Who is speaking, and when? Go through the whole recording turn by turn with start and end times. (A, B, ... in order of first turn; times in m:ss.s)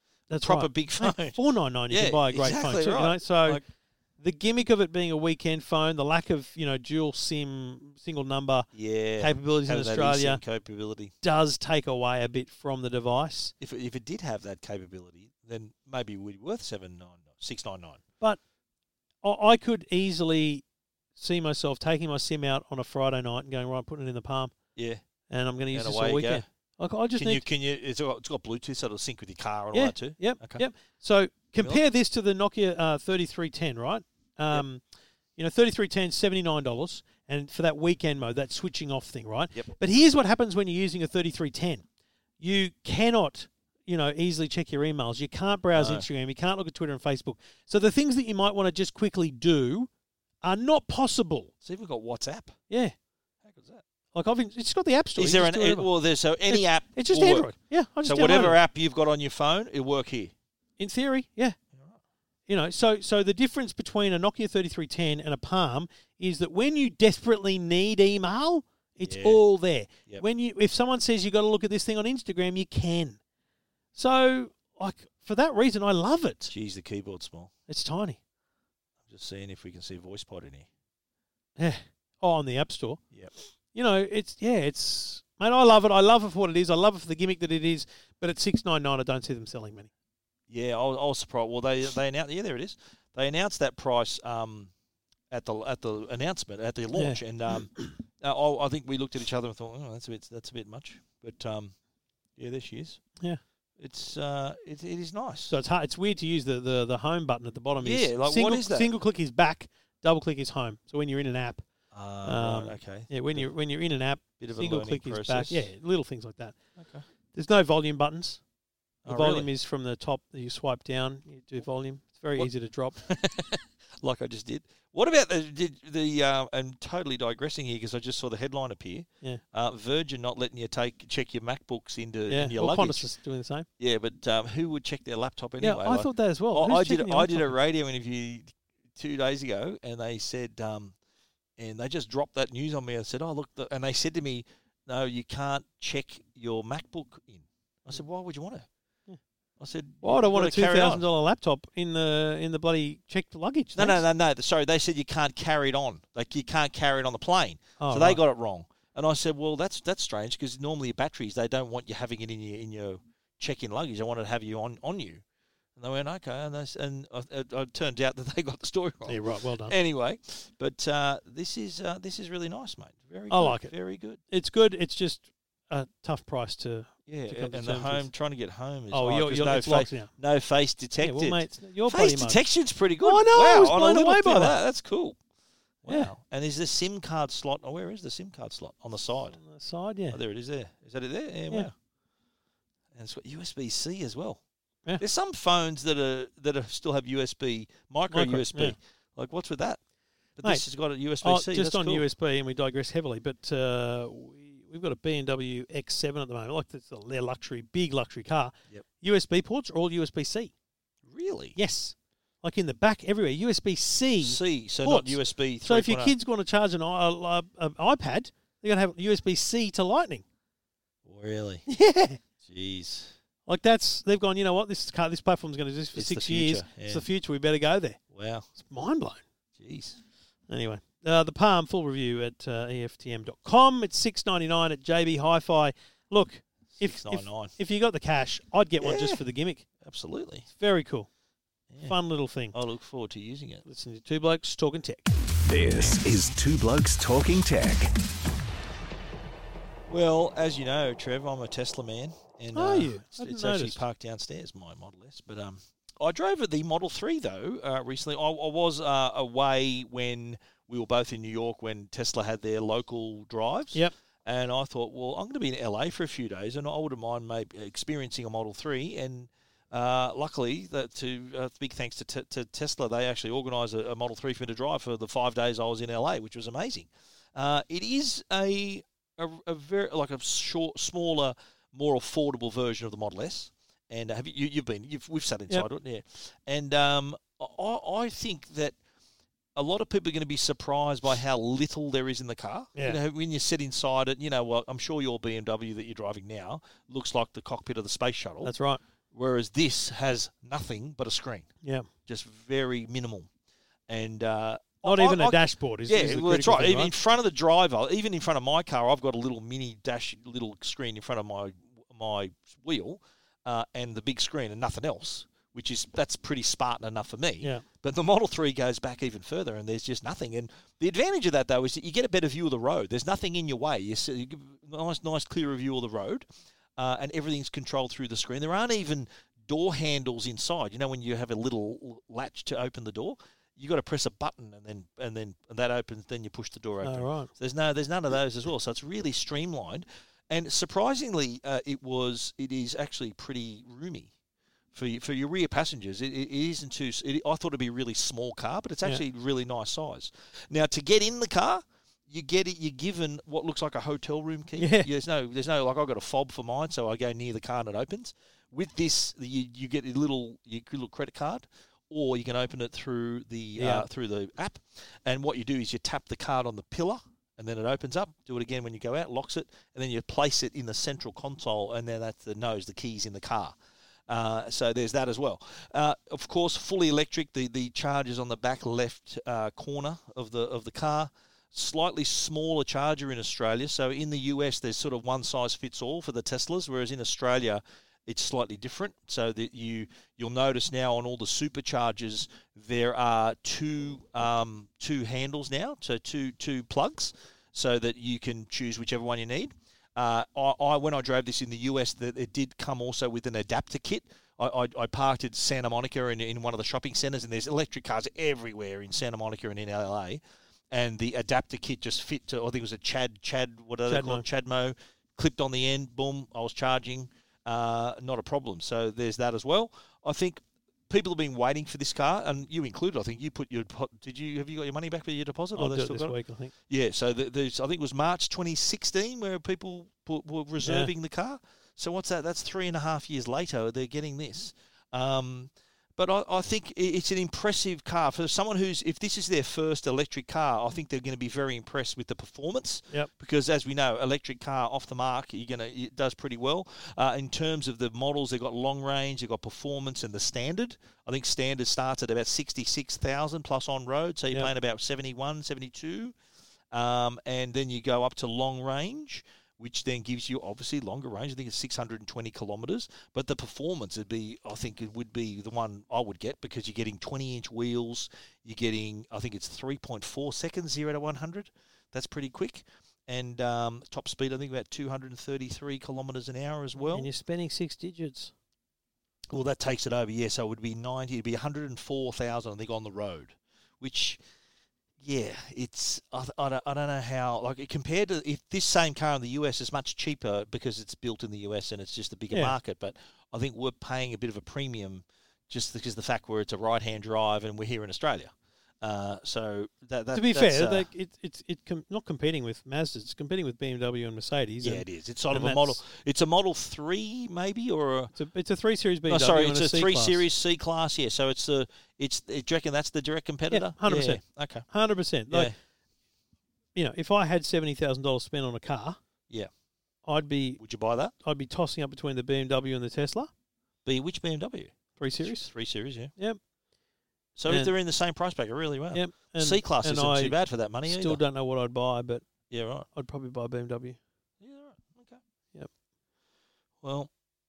0:00.3-0:03.6 A
0:00.4-0:03.6 B
0:04.2-0:08.7 A
0:08.7-0:11.1 B
0:09.2-0:10.4 A
0:11.2-0:13.5 A
0:13.6-0:18.0 B
0:19.2-0:20.6 A
0:21.2-0:24.5 A
0:24.8-0:25.0 B
0:25.3-0:27.4 A
0:25.7-0:26.4 B
0:27.2-0:30.6 B
0:29.7-0:34.8 A
0:35.4-0:41.8 A
0:42.4-0:49.9 A
0:45.7-0:46.1 B
0:50.4-0:51.5 A
0:51.6-0:52.6 B
0:52.7-0:52.9 A
0:53.4-0:53.8 B
0:54.1-0:55.9 A
0:55.2-0:57.5 B
0:56.5-0:58.6 A
0:58.0-1:00.3 B
1:00.8-1:01.6 A
1:01.7-1:02.0 B
1:02.5-1:13.2 A
1:09.0-1:09.4 B
1:13.9-1:16.5 A
1:16.5-1:17.5 B
1:17.7-1:18.2 A
1:19.1-1:20.7 B
1:21.6-1:23.0 A
1:23.7-1:29.9 A
1:30.5-1:34.7 B
1:35.3-1:41.7 B
1:36.9-1:37.2 A
1:42.4-1:43.0 B
1:43.8-1:45.5 B
1:45.5-1:51.6 A
1:47.8-1:48.9 B
1:51.9-1:53.5 B
1:52.2-1:56.6 A
1:54.4-1:55.7 B
1:56.8-1:57.0 B
1:57.3-1:58.4 A
1:59.0-1:59.5 B
1:59.1-2:03.0 A
2:03.0-2:13.1 B
2:12.3-2:13.7 A
2:13.8-2:21.0 B
2:15.6-2:17.5 A
2:21.6-2:28.7 B
2:29.6-2:31.0 B
2:30.0-2:34.0 A
2:33.8-2:45.2 B
2:37.8-2:38.2 A
2:45.8-2:54.2 B
2:49.0-2:49.7 A
2:53.3-2:53.7 A
2:54.3-2:58.1 A
2:57.1-3:05.2 B
2:58.9-3:00.1 A
3:01.0-3:02.4 A
3:03.0-3:04.6 A
3:05.8-3:09.4 B
3:05.9-3:06.1 A
3:09.3-3:10.2 A
3:10.1-3:11.7 B
3:12.9-3:14.4 B
3:15.0-3:19.8 B
3:18.1-3:18.8 A
3:20.4-3:22.0 B
3:21.2-3:30.5 A
3:31.0-3:31.6 B
3:31.5-3:40.2 A
3:34.2-3:36.1 B
3:41.0-3:41.6 B
3:41.7-3:42.2 A
3:42.4-3:43.1 B
3:43.5-3:48.0 A
3:45.9-3:47.0 B
3:48.1-3:48.5 B
3:48.5-3:49.2 A
3:49.6-3:50.0 B
3:50.5-3:59.6 A
3:56.7-3:57.5 B
3:58.8-3:59.2 B
3:59.8-4:00.4 B
4:00.5-4:01.1 A
4:01.7-4:02.0 B
4:01.8-4:02.6 A
4:02.5-4:03.6 B
4:03.6-4:05.1 A
4:05.5-4:07.9 C
4:09.9-4:48.8 B
4:12.5-4:13.8 A
4:49.5-4:58.5 B
4:58.4-4:58.8 A
4:59.1-5:01.5 B
5:01.6-5:01.9 A
5:02.0-5:03.3 B
5:03.9-5:44.1 B
5:04.8-5:06.9 A
5:36.8-5:37.3 A
5:44.7-6:13.5 B
5:54.6-5:54.9 A
6:03.6-6:03.8 A
6:14.1-7:06.2 B
6:53.9-6:54.2 A
7:05.6-7:06.5 A
7:06.7-7:36.1 B
7:10.6-7:10.9 A
7:36.7-7:57.1 B
7:56.8-7:58.3 A
7:59.3-8:04.2 B
8:05.0-8:20.9 B
8:12.3-8:12.6 A
8:20.1-8:25.8 A
8:24.6-8:28.1 B
8:28.1-8:30.2 A
8:29.1-8:34.6 B
8:33.5-8:35.5 A
8:35.3-8:35.5 B
8:36.7-8:39.0 A
8:40.0-8:40.6 A
8:40.6-8:41.1 B
8:41.2-8:43.3 A
8:43.8-8:46.1 B
8:45.0-8:45.5 A
8:47.4-8:51.2 B
8:48.9-8:52.2 A
8:52.5-8:52.9 B
8:52.9-8:54.0 A
8:54.4-8:55.2 B
8:56.8-8:57.1 B